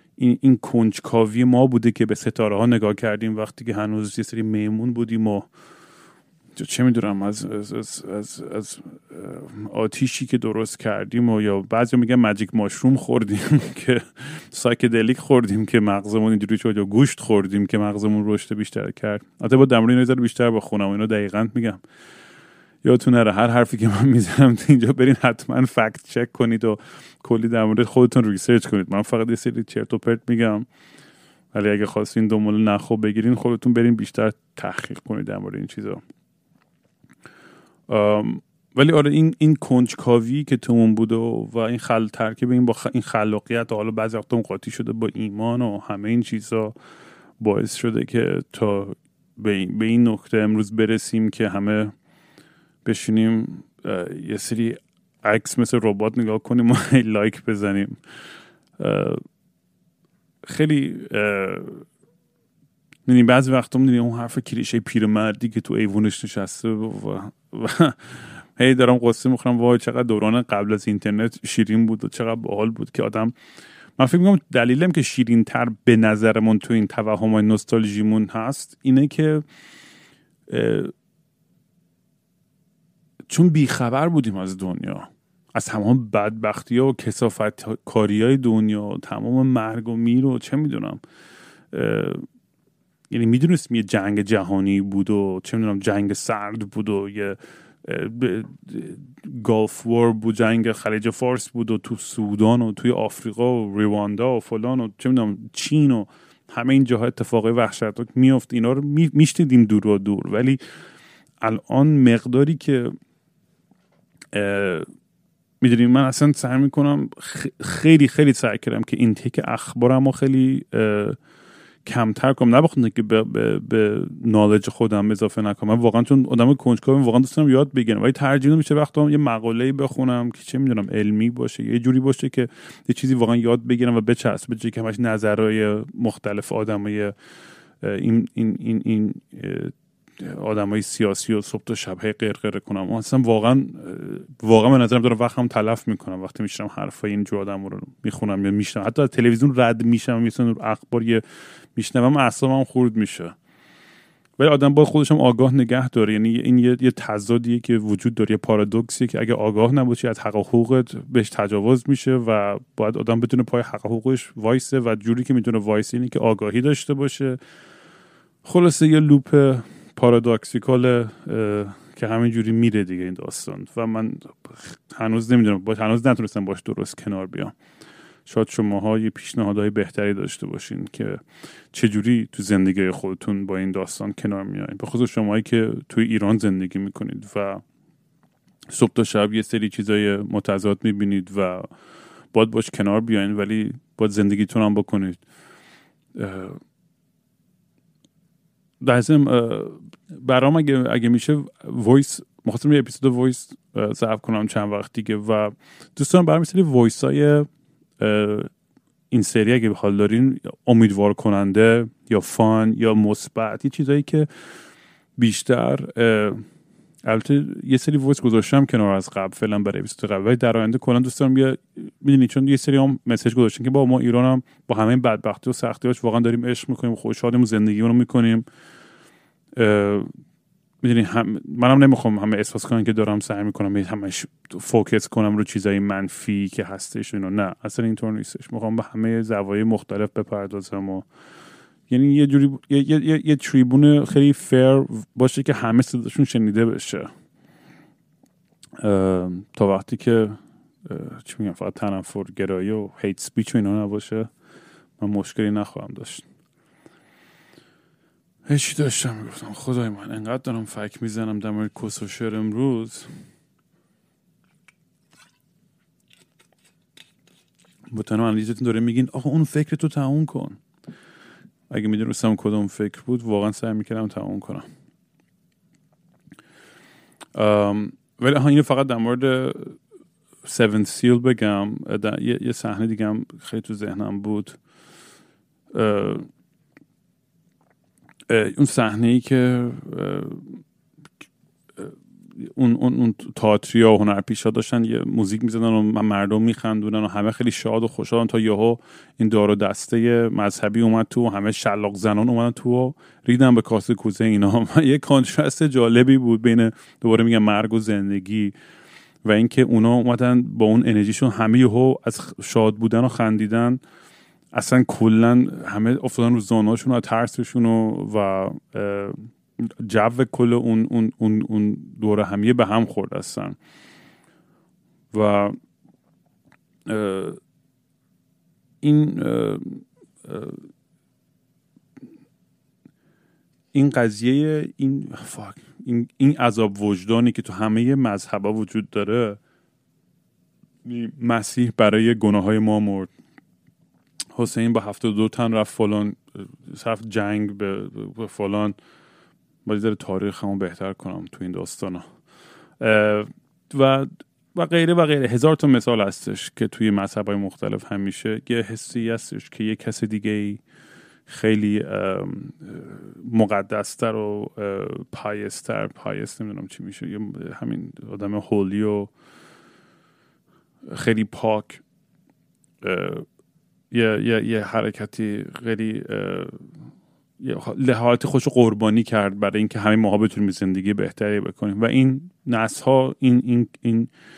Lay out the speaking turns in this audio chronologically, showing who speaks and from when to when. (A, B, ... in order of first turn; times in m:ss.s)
0:00.2-0:05.5 A
0:06.6-0:21.8 A
0:22.8-0:30.7 A
0:31.5-0:36.0 A
0:37.9-0:46.8 A
0:47.4-0:51.9 A
0:52.8-0:58.0 A
0:58.8-0:59.2 A
1:00.5-1:01.8 A
1:03.1-1:13.4 A
1:14.0-1:19.4 A
1:20.5-1:20.9 A
1:23.3-1:31.0 A
1:31.7-1:32.2 A
1:33.1-1:50.6 A
1:51.4-1:53.0 A
1:54.3-1:54.9 A
1:55.6-2:01.2 A
2:01.8-2:17.1 A
2:17.8-2:31.2 A
2:31.8-2:33.4 A
2:34.4-2:47.4 A
2:48.4-2:57.5 A
2:58.3-3:07.6 A
3:08.7-3:11.7 A
3:12.3-3:15.2 A
3:16.2-3:16.6 A
3:18.8-3:27.5 A
3:28.0-3:28.5 A
3:29.1-3:34.3 A
3:35.2-3:36.4 A
3:37.0-3:48.5 A
3:49.6-3:50.1 A
3:50.8-4:01.1 A
4:01.9-4:07.1 A
4:08.8-4:14.3 A
4:15.0-4:16.2 A
4:18.5-4:23.1 A
4:27.9-4:30.6 A
4:31.7-4:34.6 A
4:37.4-4:39.8 A
4:40.4-4:44.6 A
4:45.7-4:46.3 A
4:48.3-4:50.6 A
4:51.8-5:08.5 A
5:09.2-5:13.8 A
5:14.5-5:23.6 A
5:25.1-5:25.6 A
5:26.9-5:27.4 A
5:28.8-5:30.6 A
5:33.7-5:39.4 A
5:40.8-5:43.1 A
5:44.4-5:48.8 A
5:49.7-5:52.1 A
5:52.8-6:00.6 A
6:01.3-6:09.1 A
6:10.9-6:11.8 A
6:12.8-6:13.3 A
6:13.9-6:16.7 A
6:17.4-6:24.1 A